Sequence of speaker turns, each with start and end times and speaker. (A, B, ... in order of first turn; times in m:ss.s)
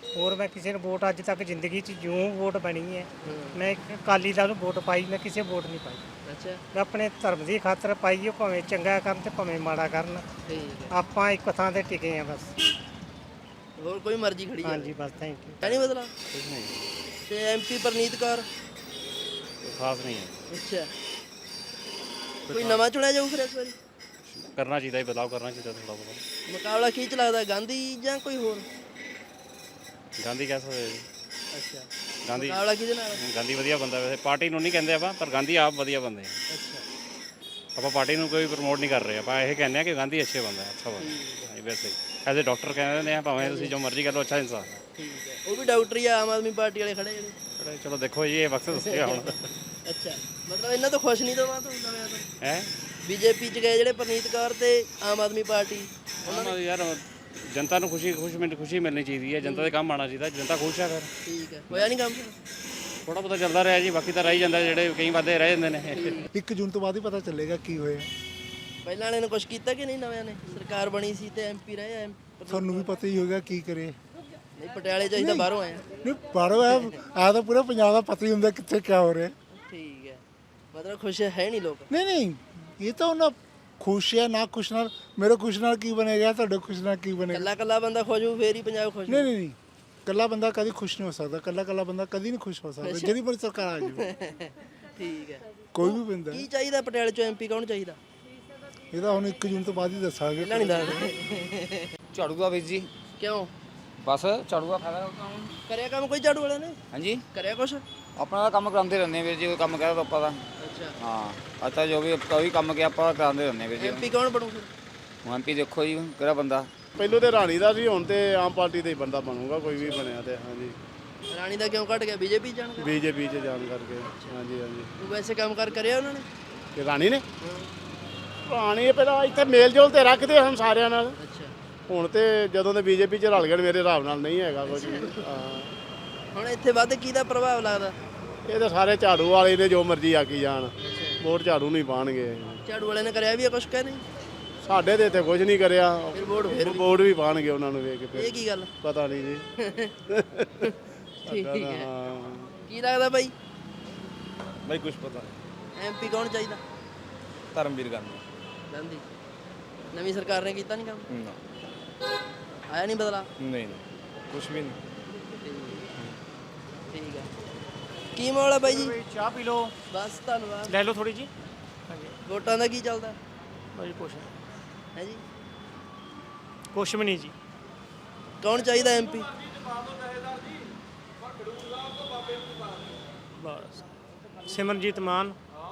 0:00.2-0:06.0 A
0:03.2-0:03.6 B
0:06.2-0:06.6 B
0:06.7-0:10.2 A
0:10.4-0:10.9 B
0:10.9-0:12.6 A
0:13.8-0:14.9 B
0:14.6-0:15.6 A
0:15.6-0:16.1 B
0:16.3-0:16.8 C
0:17.3-0:18.4 B
0:19.6-0:20.4 C
0:20.5-0:20.9 B
0:22.5-0:23.7 B
0:24.5-0:26.2 C
0:26.5-0:28.6 B
0:30.2-0:31.0 C
0:31.5-0:33.2 B
0:32.3-0:32.6 C
0:33.2-0:36.4 C
0:36.5-0:36.8 B
0:37.8-0:44.8 C
0:41.0-0:41.5 B
0:43.4-0:43.7 B
0:45.0-0:47.4 B
0:47.6-0:49.5 C
0:48.7-0:49.3 B
0:49.8-0:52.2 B
0:52.4-0:52.7 C
0:53.0-0:56.5 B
0:56.2-1:01.1 C
0:59.4-0:59.7 B
1:01.2-1:02.4 B
1:03.1-1:06.2 C
1:06.0-1:06.2 B
1:06.3-1:08.1 D
1:08.8-1:12.9 B
1:12.5-1:13.9 D
1:14.6-1:15.8 B
1:15.2-1:15.5 D
1:16.0-1:19.3 D
1:16.6-1:17.0 B
1:19.5-1:20.2 B
1:20.7-1:21.9 B
1:21.9-1:27.5 D
1:27.3-1:29.3 B
1:29.1-1:29.5 D
1:30.0-1:34.1 D
1:32.8-1:33.2 B
1:33.9-1:34.3 B
1:35.0-1:38.0 B
1:35.7-1:36.5 D
1:38.9-1:41.1 D
1:40.4-1:41.4 B
1:42.1-1:42.9 E
1:43.2-1:43.5 B
1:44.0-1:45.4 E
1:45.7-1:46.8 B
1:46.9-1:47.2 E
1:47.3-1:47.8 B
1:48.2-1:50.4 E
1:50.6-1:50.9 B
1:51.0-1:54.1 E
1:53.8-1:54.7 B
1:55.2-1:56.7 E
1:57.0-2:00.7 F
2:01.3-2:02.9 B
2:02.8-2:04.9 F
2:05.0-2:06.3 B
2:06.8-2:07.2 F
2:07.4-2:07.7 B
2:08.5-2:11.1 F
2:11.2-2:11.5 B
2:11.9-2:15.7 F
2:14.7-2:15.2 B
2:16.3-2:17.9 B
2:18.5-2:22.6 F
2:20.8-2:21.2 B
2:22.6-2:24.0 B
2:24.6-2:29.4 F
2:26.1-2:26.8 B
2:28.1-2:28.7 B
2:29.6-2:29.9 B
2:30.2-2:30.5 F
2:31.2-2:32.5 F
2:31.2-2:31.9 B
2:32.7-2:33.3 B
2:34.7-2:35.3 G
2:35.8-2:36.6 B
2:37.5-2:38.2 G
2:38.7-2:39.1 B
2:39.9-2:41.0 B
2:42.7-2:43.3 B
2:43.4-2:43.8 G
2:44.3-2:44.8 G
2:45.4-2:45.8 B
2:46.9-2:47.3 B
2:48.1-2:48.9 B
2:48.6-2:49.7 H
2:49.9-2:50.7 B
2:50.7-2:51.3 H
2:51.9-2:52.1 H
2:52.2-2:53.2 B
2:53.7-2:54.3 H
2:54.9-2:55.2 B
2:56.7-2:57.3 H
2:58.4-2:59.3 B
3:03.4-3:03.8 H
3:04.4-3:05.4 H